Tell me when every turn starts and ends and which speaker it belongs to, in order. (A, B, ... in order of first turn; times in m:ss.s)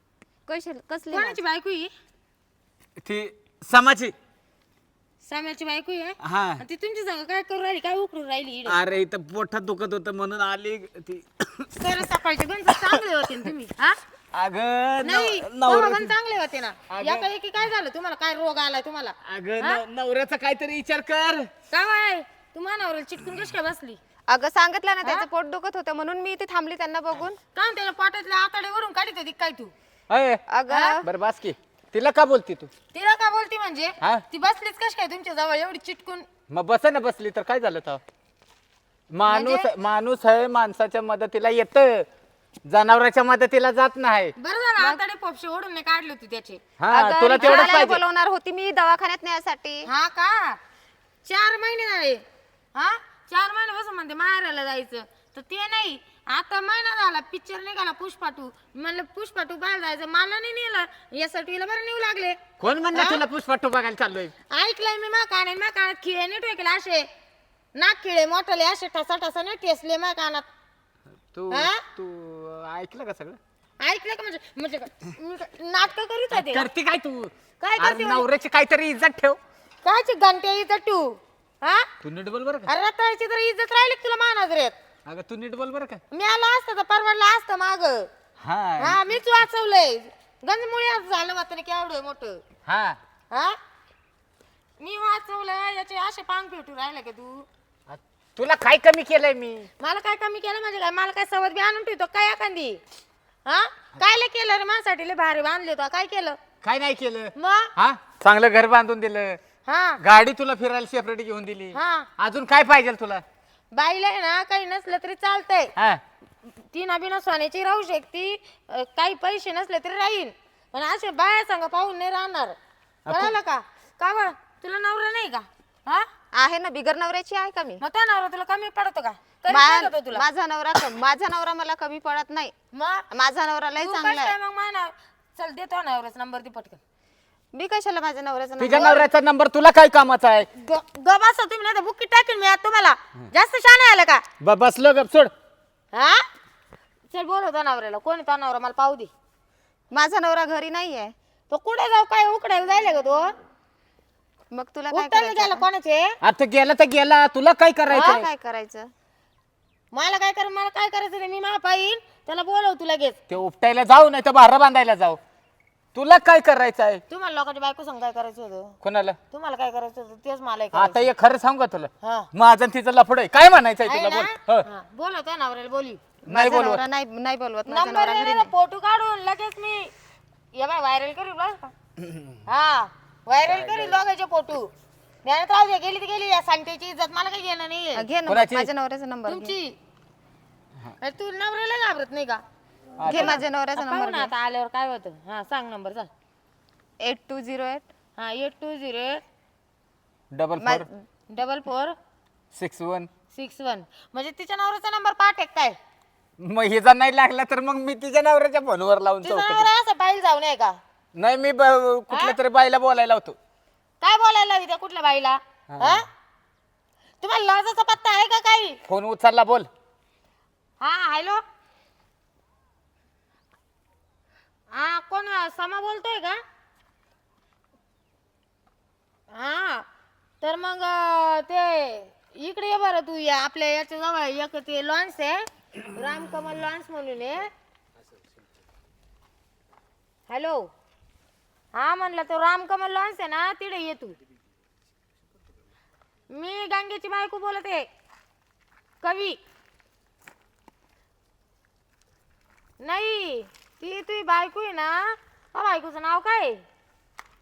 0:00.5-0:01.4 A
0:01.1-0:01.9 B
0:03.0-0:04.2 C
0:05.2-0:08.8 B
0:06.2-0:06.6 C
0:08.7-0:12.1 C
0:11.8-0:14.0 B
0:12.7-0:13.5 C
0:14.3-0:16.1 C
0:15.0-0:19.8 B
0:16.9-0:17.3 C
0:19.2-0:21.5 C
0:21.7-0:24.0 B
0:24.3-0:27.4 A
0:27.5-0:29.7 B
0:30.1-0:30.4 C
0:30.5-0:31.1 A
0:30.7-0:31.0 B
0:31.0-0:32.7 C
0:32.9-0:36.3 B
0:36.5-0:38.0 C
0:39.1-0:42.1 C
0:39.3-0:39.7 B
0:42.7-0:44.3 C
0:44.4-0:46.6 B
0:46.8-0:48.0 C
0:46.9-0:49.9 A
0:47.4-0:47.8 B
0:49.9-0:50.6 B
0:51.2-0:52.2 B
0:52.7-1:02.4 B
1:02.6-1:04.3 C
1:02.9-1:03.2 B
1:04.5-1:07.1 B
1:07.8-1:10.5 B
1:11.3-1:13.4 C
1:11.5-1:11.8 B
1:13.8-1:16.7 B
1:16.3-1:19.4 C
1:17.6-1:18.3 B
1:19.8-1:21.9 B
1:22.0-1:22.7 C
1:22.7-1:24.8 B
1:25.1-1:26.0 C
1:26.1-1:28.1 B
1:28.4-1:29.0 C
1:28.8-1:32.4 B
1:32.7-1:33.0 C
1:33.3-1:33.6 B
1:34.8-1:37.5 B
1:37.9-1:39.7 C
1:39.8-1:42.8 B
1:43.4-1:46.4 B
1:46.6-1:49.4 C
1:47.4-1:47.7 B
1:49.6-1:50.0 B
1:50.0-1:53.2 C
1:51.7-1:52.1 B
1:53.7-1:55.7 B
1:55.8-1:56.0 C
1:56.7-2:02.6 B
2:03.1-2:03.4 C
2:03.1-2:06.1 B
2:06.3-2:07.8 A
2:07.8-2:10.2 B
2:09.5-2:12.5 A
2:12.7-2:13.1 B
2:13.1-2:14.3 A
2:13.8-2:16.8 B
2:17.5-2:19.0 A
2:18.6-2:20.5 C
2:18.7-2:19.1 B
2:20.6-2:24.2 B
2:24.4-2:25.3 C
2:25.9-2:26.2 B
2:27.1-2:29.1 B
2:29.9-2:31.1 A
2:31.5-2:33.3 B
2:34.5-2:35.7 A
2:34.9-2:36.2 B
2:36.2-2:38.3 C
2:37.9-2:38.9 A
2:39.9-2:43.2 B
2:43.3-2:45.2 C
2:45.9-2:47.0 C
2:47.1-2:48.8 B
2:48.8-2:49.2 C
2:49.3-2:51.1 B
2:50.7-2:54.7 C
2:52.0-2:52.3 B
2:53.8-2:56.0 B
2:56.3-2:56.8 C
2:56.3-2:58.5 A
2:57.7-2:59.9 B
3:00.5-3:01.7 B
3:02.0-3:02.4 C
3:02.5-3:04.7 B
3:03.5-3:04.0 C
3:05.2-3:08.0 B
3:08.0-3:09.5 A
3:08.3-3:08.7 C
3:09.3-3:09.8 B
3:11.0-3:12.4 B
3:13.0-3:13.4 C
3:13.0-3:16.1 B
3:13.0-3:14.3 A
3:17.0-3:17.9 A
3:18.2-3:19.2 B
3:20.3-3:20.9 C
3:20.6-3:21.0 A
3:21.3-3:22.0 B
3:22.5-3:23.1 C
3:23.3-3:25.8 B
3:26.4-3:29.7 C
3:29.2-3:30.8 B
3:31.2-3:33.4 C
3:32.1-3:32.4 B
3:34.0-3:36.1 B
3:35.7-3:36.0 C
3:37.2-3:38.8 B
3:38.9-3:39.7 C
3:40.8-3:41.4 B
3:44.7-3:46.4 B
3:49.3-3:49.9 B
3:50.4-3:57.5 B
4:00.3-4:00.7 B
4:01.7-4:04.2 B
4:06.3-4:07.9 B
4:09.0-4:09.4 B
4:12.8-4:16.6 B